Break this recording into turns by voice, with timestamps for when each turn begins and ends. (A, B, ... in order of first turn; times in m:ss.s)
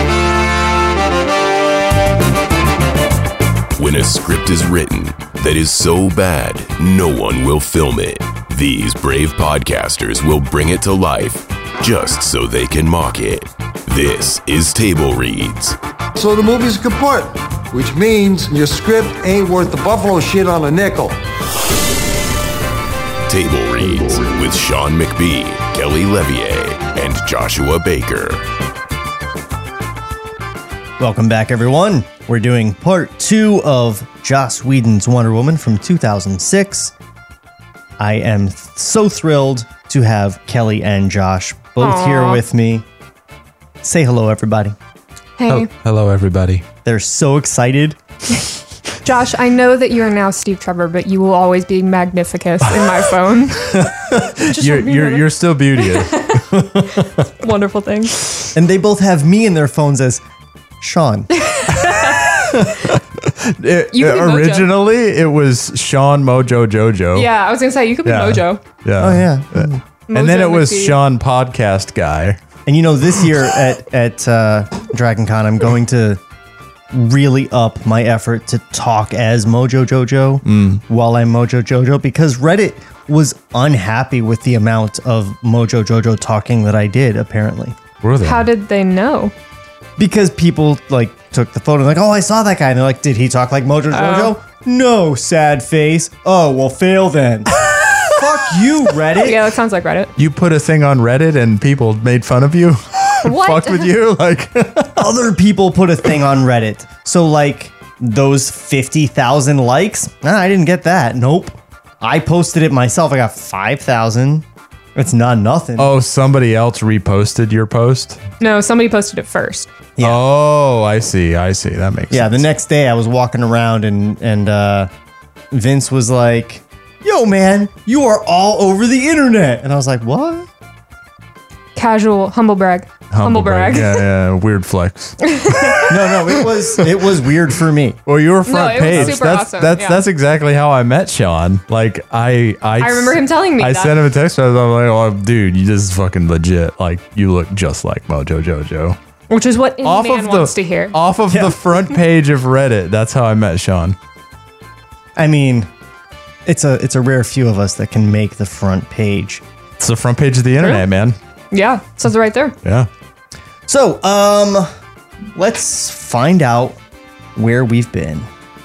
0:03.7-0:15.8 A
0:16.1-0:21.2 B
0:23.3-0:28.4 A
0:31.0-0:36.9 C
0:38.0-0:42.8 C
0:41.8-0:42.4 D
0:43.8-0:44.8 C
0:45.4-0:45.7 D
0:45.5-0:46.6 E
0:46.8-0:48.0 C
0:49.0-0:58.2 D
0:53.8-0:56.6 E
0:58.5-1:00.2 C
1:00.8-1:01.3 C
1:01.3-1:02.9 D
1:02.9-1:07.3 E
1:03.9-1:04.7 D
1:07.1-1:08.6 D
1:08.0-1:12.4 E
1:09.0-1:09.8 C
1:10.1-1:11.0 D
1:12.6-1:16.2 C
1:16.9-1:27.8 C
1:20.4-1:20.8 E
1:28.0-1:28.5 E
1:28.2-1:29.3 D
1:30.0-1:39.4 C
1:33.9-1:34.4 D
1:39.1-1:40.1 D
1:40.2-1:45.1 E
1:43.2-1:43.9 D
1:45.0-1:55.9 C
1:55.8-1:58.2 E
1:58.4-1:59.7 D
2:00.0-2:02.4 E
2:02.1-2:04.9 C
2:05.5-2:10.5 C
2:11.8-2:14.0 D
2:13.1-2:15.2 E
2:15.2-2:15.9 D
2:15.9-2:18.0 C
2:18.1-2:29.0 E
2:18.5-2:20.0 D
2:18.9-2:19.2 C
2:22.8-2:24.0 D
2:29.3-2:30.9 D
2:29.8-2:34.0 E
2:31.3-2:31.6 C
2:35.2-2:35.7 C
2:36.4-2:39.4 C
2:39.8-2:41.2 E
2:40.6-2:40.8 D
2:41.5-2:42.5 D
2:42.6-2:42.9 E
2:43.7-2:44.7 C
2:45.3-2:46.8 C
2:47.4-2:48.3 C